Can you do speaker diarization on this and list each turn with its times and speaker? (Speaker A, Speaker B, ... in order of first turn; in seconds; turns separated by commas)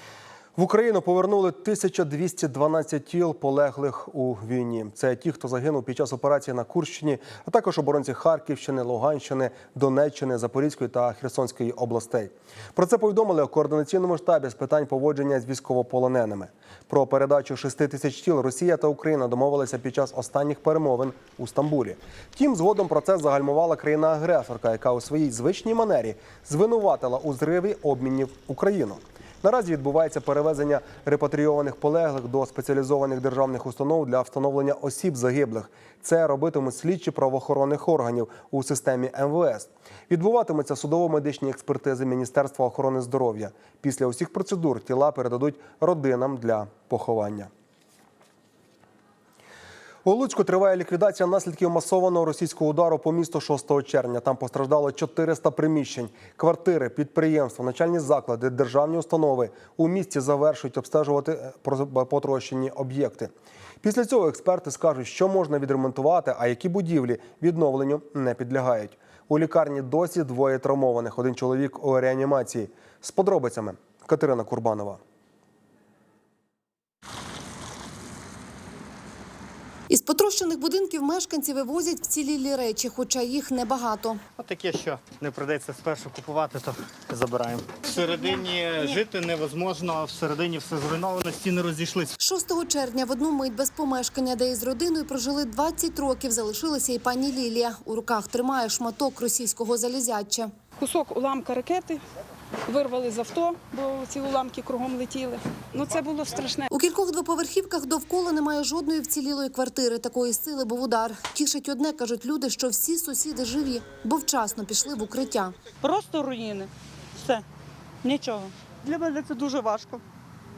Speaker A: 0.6-47.5, Speaker A: 50.0-63.3, Speaker A: 63.8-75.0, Speaker B: 79.9-84.2, Speaker C: 84.4-92.1, Speaker B: 92.2-100.5, Speaker D: 100.8-102.0, Speaker D: 102.7-106.7, Speaker B: 106.7-115.6, Speaker E: 115.8-116.7, Speaker E: 118.0-120.0